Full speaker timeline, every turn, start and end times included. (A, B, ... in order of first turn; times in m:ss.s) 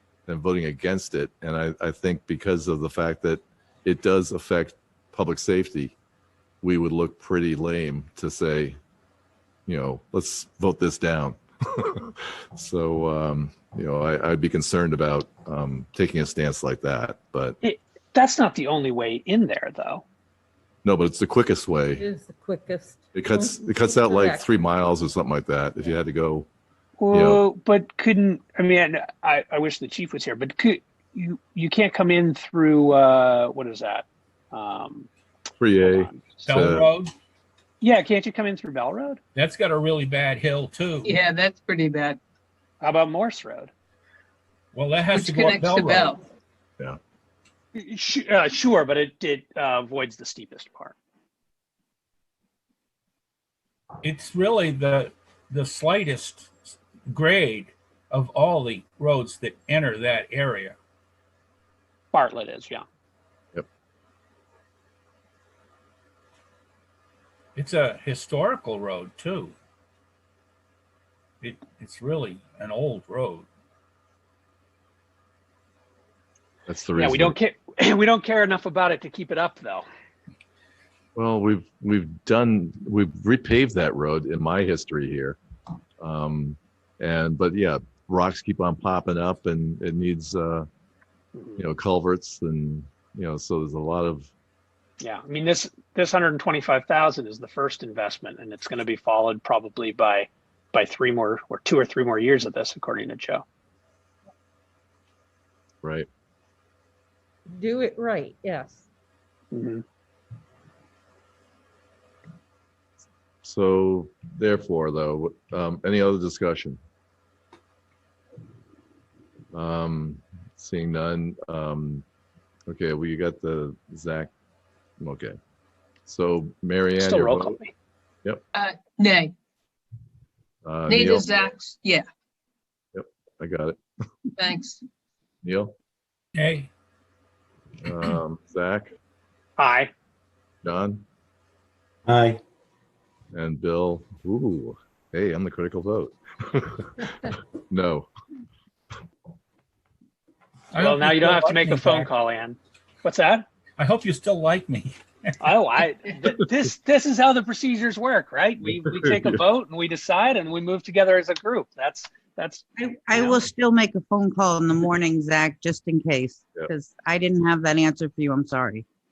0:00.3-0:06.0 A
0:06.6-0:08.8 A
0:09.7-0:17.6 A
0:17.6-0:20.0 B
0:20.8-0:22.0 A
0:22.0-0:24.4 C
0:23.1-0:26.5 A
0:27.0-0:35.1 B
0:27.1-0:27.4 A
0:35.6-0:36.9 A
0:35.8-0:36.7 B
0:36.4-0:37.1 D
0:37.8-0:39.2 B
0:39.4-0:41.2 D
0:41.0-0:42.2 E
0:42.8-0:43.7 B
0:44.7-0:46.2 D
0:45.0-0:46.2 E
0:47.8-0:50.9 B
0:54.0-1:00.8 D
1:02.1-1:02.8 B
1:07.6-1:09.6 D
1:11.4-1:13.5 D
1:16.7-1:17.4 A
1:17.0-1:19.9 B
1:21.2-1:25.4 A
1:26.0-1:30.7 A
1:31.4-1:31.6 B
1:31.6-1:34.3 A
1:35.0-1:43.4 B
1:45.8-1:46.1 A
1:47.5-1:48.8 C
1:49.5-1:49.8 B
1:53.4-1:56.8 A
1:59.5-2:02.0 A
2:02.7-2:04.3 A
2:05.0-2:05.4 A
2:06.1-2:07.6 A
2:07.0-2:07.7 B
2:08.5-2:09.3 E
2:10.6-2:11.3 A
2:10.9-2:12.1 E
2:13.0-2:13.8 A
2:14.4-2:14.8 E
2:15.4-2:15.7 A
2:16.4-2:16.7 D
2:17.8-2:19.0 A
2:19.6-2:19.9 B
2:20.6-2:21.0 A
2:23.3-2:28.1 A
2:30.7-2:32.1 D
2:30.8-2:33.4 B
2:33.8-2:35.3 D
2:35.4-2:43.4 B
2:38.7-2:39.4 A
2:42.8-2:48.8 F